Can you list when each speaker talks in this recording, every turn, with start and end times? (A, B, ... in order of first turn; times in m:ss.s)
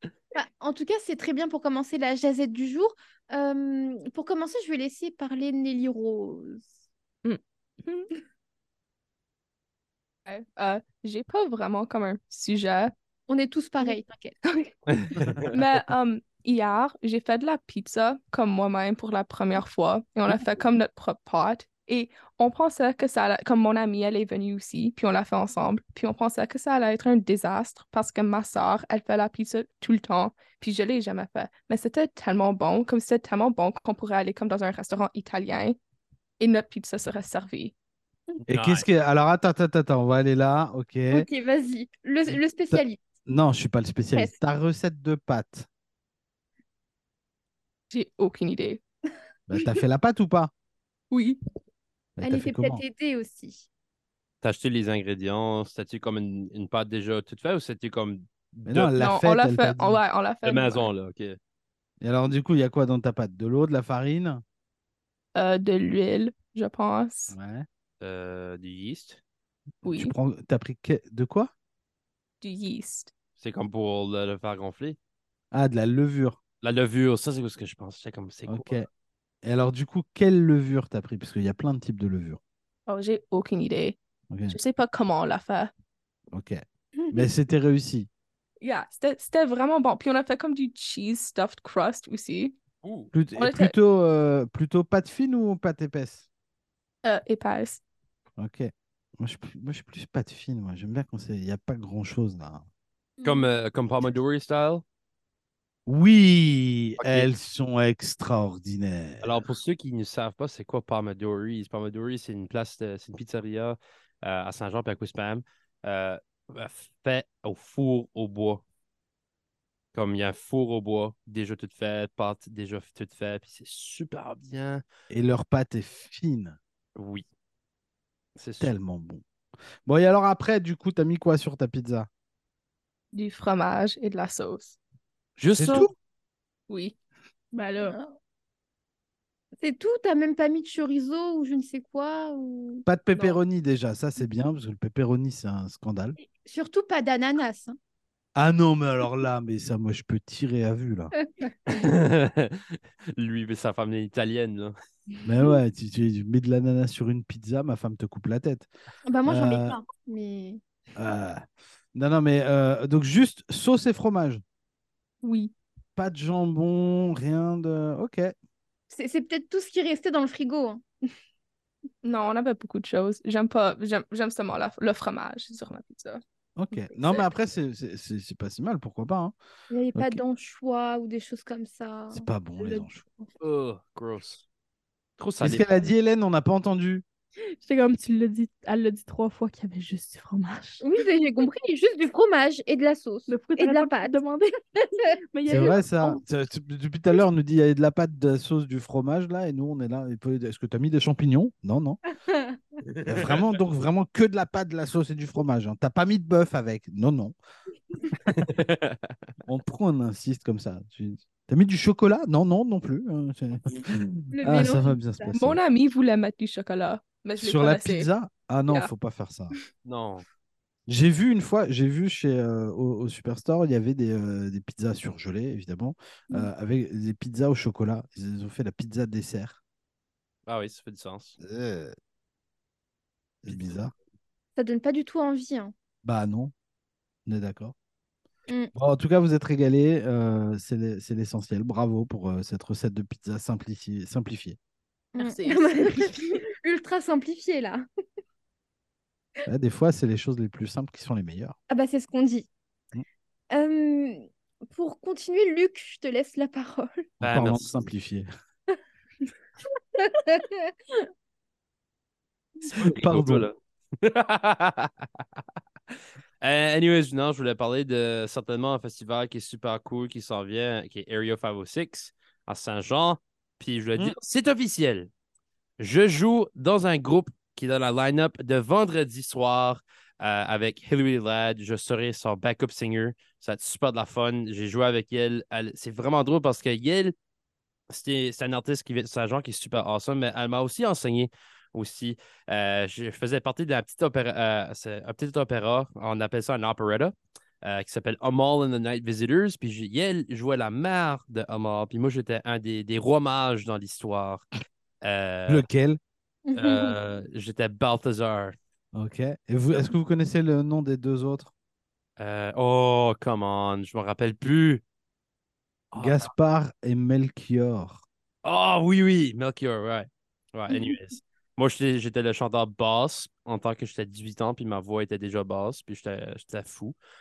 0:00.4-0:06.6 A
0:07.2-0:07.9 B
0:10.3-0:12.9 C
0:13.3-0:14.4 A
0:14.9-0:15.5 D
0:15.5-0:35.8 C
0:36.4-0:37.7 C
0:38.5-0:41.3 E
0:38.5-0:38.8 D
0:41.1-0:43.0 A
0:42.3-0:45.7 E
0:47.9-0:48.8 C
0:49.5-0:50.5 E
0:51.1-0:51.4 C
0:52.2-0:52.8 E
0:52.2-0:53.7 A
0:54.4-0:58.9 D
0:58.7-1:00.0 E
0:59.0-1:00.9 C
1:00.4-1:01.4 D
1:02.0-1:04.4 E
1:05.4-1:07.4 C
1:07.3-1:07.7 E
1:08.0-1:09.2 D
1:09.8-1:11.5 E
1:09.8-1:10.1 C
1:12.4-1:13.1 C
1:13.4-1:15.0 D
1:15.5-1:16.4 E
1:16.6-1:18.8 D
1:18.5-1:18.9 E
1:19.4-1:22.4 E
1:22.9-1:24.0 C
1:24.3-1:24.6 E
1:24.5-1:25.7 C
1:26.3-1:26.6 E
1:27.1-1:28.1 E
1:28.6-1:32.6 C
1:32.8-1:33.1 D
1:33.1-1:36.2 E
1:33.4-1:33.7 C
1:37.0-1:37.8 C
1:38.4-1:42.6 E
1:43.2-1:43.5 A
1:43.2-1:44.8 D
1:45.9-1:49.4 E
1:47.0-1:47.3 D
1:49.2-1:58.6 D
1:59.9-2:04.8 D
2:05.1-2:06.6 E
2:07.0-2:07.2 D
2:08.4-2:08.7 D
2:08.6-2:09.2 E
2:09.8-2:12.1 E
2:13.1-2:14.8 C
2:15.4-2:15.9 D
2:15.6-2:15.9 E
2:16.7-2:17.0 C
2:17.5-2:18.0 B
2:17.8-2:18.1 A
2:19.6-2:22.8 A
2:22.9-2:26.2 E
2:26.4-2:27.8 A
2:28.4-2:31.1 E
2:31.2-2:31.7 A
2:31.7-2:34.7 D
2:35.2-2:38.7 E
2:39.1-2:40.6 A
2:39.3-2:39.8 E
2:41.0-2:41.4 E
2:41.9-2:44.4 E
2:45.2-2:45.5 C
2:46.0-2:48.3 E
2:48.9-2:50.8 A
2:52.0-2:56.2 C
2:56.6-2:59.3 E
2:56.9-2:57.2 C
2:59.7-3:02.8 A
3:02.1-3:03.0 E
3:03.4-3:04.4 D
3:05.2-3:05.9 D
3:05.4-3:07.0 E
3:07.6-3:10.8 B
3:10.8-3:14.2 A
3:13.3-3:14.5 B
3:15.3-3:15.8 B
3:15.5-3:22.0 E
3:22.3-3:22.6 A
3:23.0-3:27.4 E
3:28.3-3:29.2 D
3:29.5-3:35.6 E
3:34.4-3:35.3 A
3:35.3-3:38.1 C
3:37.4-3:39.5 E
3:39.9-3:40.2 D
3:40.9-3:49.6 E
3:50.5-3:51.4 D
3:51.4-3:51.9 E
3:53.4-3:53.9 E
3:53.5-3:53.8 D
3:54.6-3:55.7 A
3:56.0-3:56.5 E
3:57.3-3:57.7 E
3:58.8-4:04.6 E
4:05.2-4:07.8 A
4:05.2-4:06.4 C
4:09.5-4:11.6 E
4:11.7-4:12.5 A
4:13.5-4:14.2 A
4:14.7-4:17.0 A
4:17.2-4:18.3 E
4:17.2-4:17.8 D
4:20.0-4:20.7 A
4:22.7-4:23.5 E
4:22.7-4:25.2 D
4:26.4-4:35.1 D
4:35.8-4:47.1 D
4:47.9-5:04.5 D
5:05.0-5:05.7 D
5:05.5-5:06.0 E
5:06.5-5:06.9 A
5:06.6-5:08.6 D
5:08.9-5:11.5 E
5:12.2-5:14.8 D
5:15.9-5:16.3 D
5:16.0-5:18.0 E
5:18.4-5:27.0 D
5:20.7-5:21.0 A